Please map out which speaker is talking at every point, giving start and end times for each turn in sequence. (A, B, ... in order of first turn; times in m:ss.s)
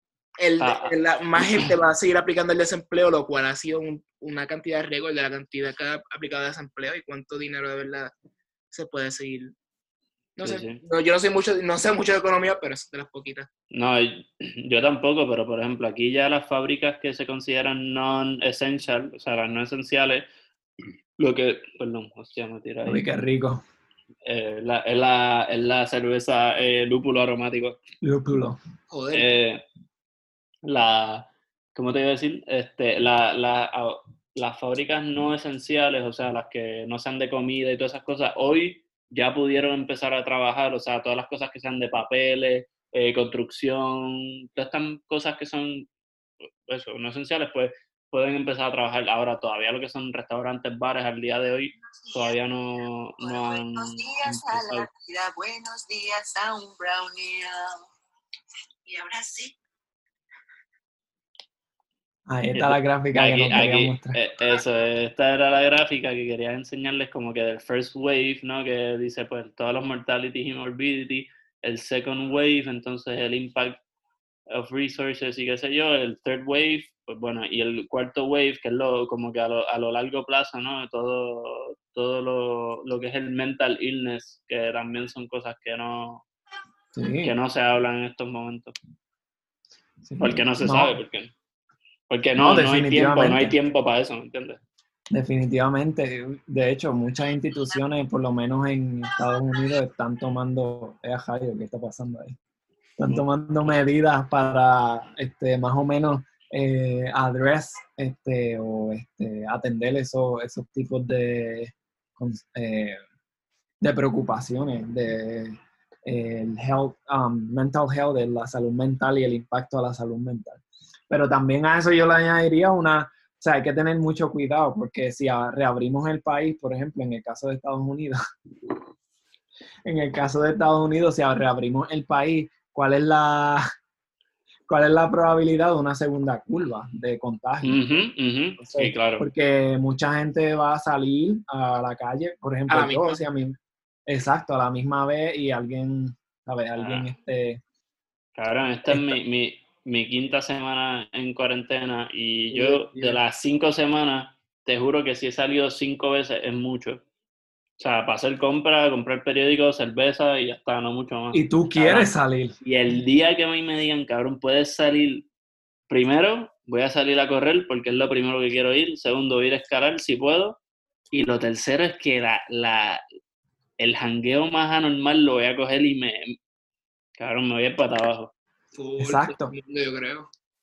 0:00.4-0:08.1 A
0:00.6-0:00.9 B
0:08.7-0:09.5 A
0:10.4-0:13.5 A
0:10.4-0:10.8 B
0:13.7-0:20.3 B
0:21.2-0:23.0 B
0:22.8-0:23.6 C
0:24.2-0:27.8 B
0:28.0-0:28.6 C
0:28.9-0:29.4 A
0:29.1-0:29.6 B
0:30.6-0:45.9 B
0:46.7-0:54.9 B
0:52.1-0:52.3 D
0:53.2-0:57.8 D
0:58.8-0:59.5 D
1:02.3-1:04.2 C
1:02.5-1:13.8 B
1:14.5-1:26.2 B
1:26.9-1:27.3 C
1:27.2-1:28.7 B
1:30.0-1:31.0 C
1:30.2-1:31.3 B
1:32.1-1:34.6 B
1:32.4-1:33.5 C
1:35.1-1:42.4 C
1:43.0-1:53.0 C
1:43.1-1:43.7 B
1:53.8-2:08.2 C
2:09.8-2:13.6 C
2:14.7-2:17.8 C
2:17.6-2:19.3 B
2:18.6-2:27.6 C
2:22.7-2:23.2 A
2:26.8-2:27.1 B
2:28.4-2:37.0 B
2:28.9-2:29.2 C
2:32.5-2:32.9 A
2:37.8-2:45.3 B
2:41.3-2:42.6 C
2:45.9-2:50.6 B
2:51.1-2:53.0 B
2:53.8-2:56.4 B
2:57.2-2:58.3 B
2:58.7-3:00.3 A
2:59.0-2:59.5 C